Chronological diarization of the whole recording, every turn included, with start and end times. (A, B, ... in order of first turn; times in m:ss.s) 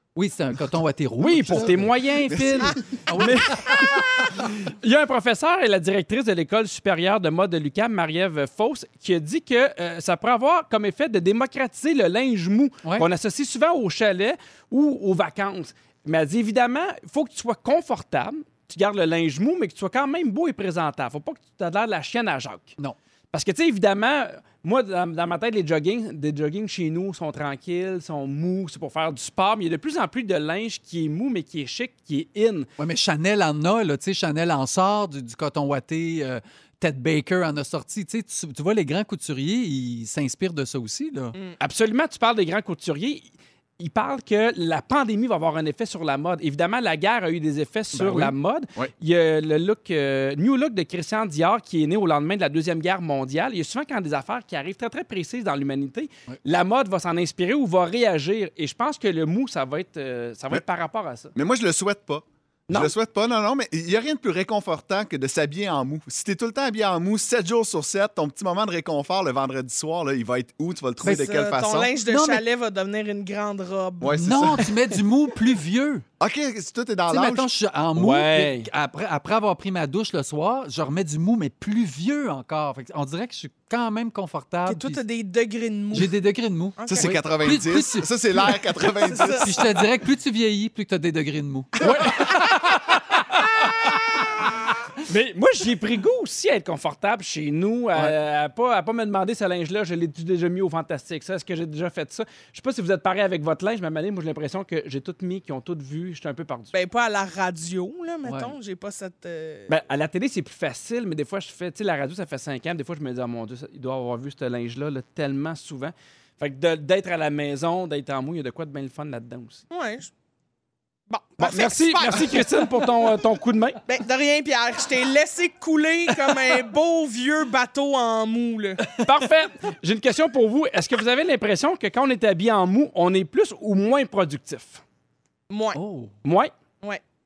0:00.1-0:01.9 A
0:01.2-0:22.7 B
0:02.3-0:02.8 C
0:03.1-0:04.0 A
0:23.3-0:32.7 B
0:32.8-0:41.4 A
0:41.6-0:43.3 B
0:43.8-1:01.3 B
0:47.9-0:48.3 A
1:01.3-1:11.9 C
1:11.0-1:14.2 D
1:12.1-1:12.4 A
1:14.0-1:14.7 C
1:14.1-1:16.0 A
1:16.2-1:17.5 C
1:17.1-1:25.0 A
1:18.0-1:18.7 B
1:24.7-1:26.2 D
1:25.9-1:28.6 A
1:26.8-1:27.1 D
1:26.9-1:29.5 C
1:29.0-1:29.5 D
1:29.4-1:32.3 A
1:31.8-1:34.2 B
1:35.0-1:46.7 B
1:46.7-1:49.7 D
1:48.2-1:48.5 A
1:49.7-1:59.6 B
1:59.7-2:00.1 D
2:01.1-2:02.5 D
2:01.4-2:03.8 B
2:03.8-2:08.8 D
2:09.0-2:14.8 B
2:15.5-2:15.8 D
2:15.7-2:16.1 A
2:16.2-2:16.5 B